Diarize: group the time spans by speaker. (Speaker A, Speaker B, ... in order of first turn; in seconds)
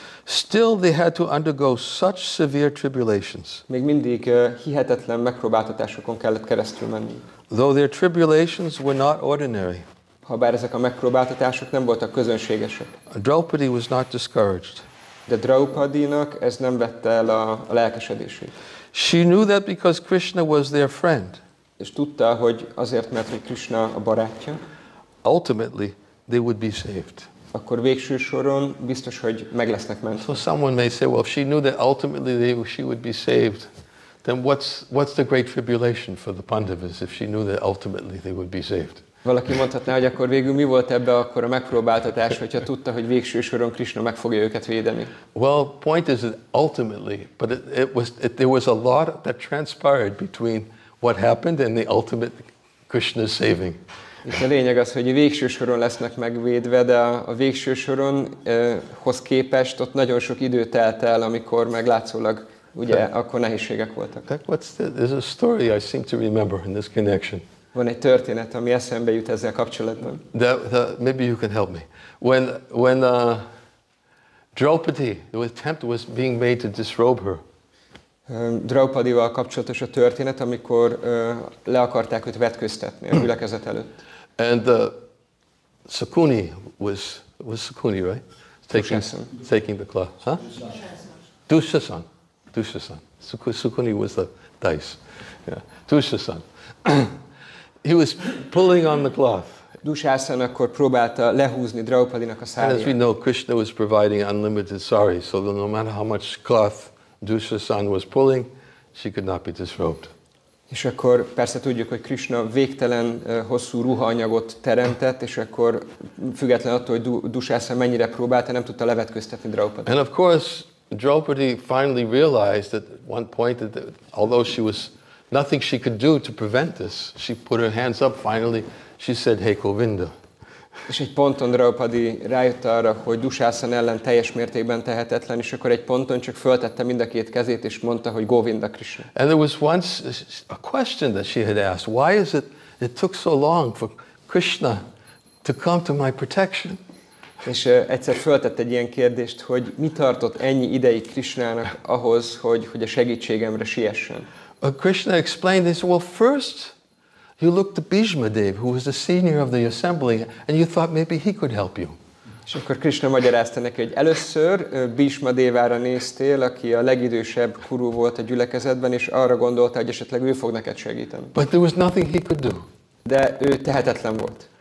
Speaker A: 0.2-3.6, 7.5-9.8, 13.1-14.8, 18.9-21.4, 25.2-27.3, 30.2-33.7, 34.2-39.0, 45.3-53.8, 64.2-67.4, 70.3-73.4, 74.5-77.4, 84.4-85.0, 85.9-90.4, 91.5-97.2, 97.8-99.6, 102.6-110.1, 119.8-130.1, 139.1-144.8, 145.4-146.8, 154.6-156.7, 157.4-162.0, 171.3-172.7
Speaker B: 3.7-7.2, 10.2-12.9, 15.3-18.6, 21.8-24.6, 27.5-30.3, 39.2-45.1, 54.2-64.2, 67.7-70.2, 78.3-84.0, 88.7-89.3, 99.8-103.0, 110.7-119.9, 130.9-139.1, 147.4-154.3, 162.5-171.3, 173.0-174.5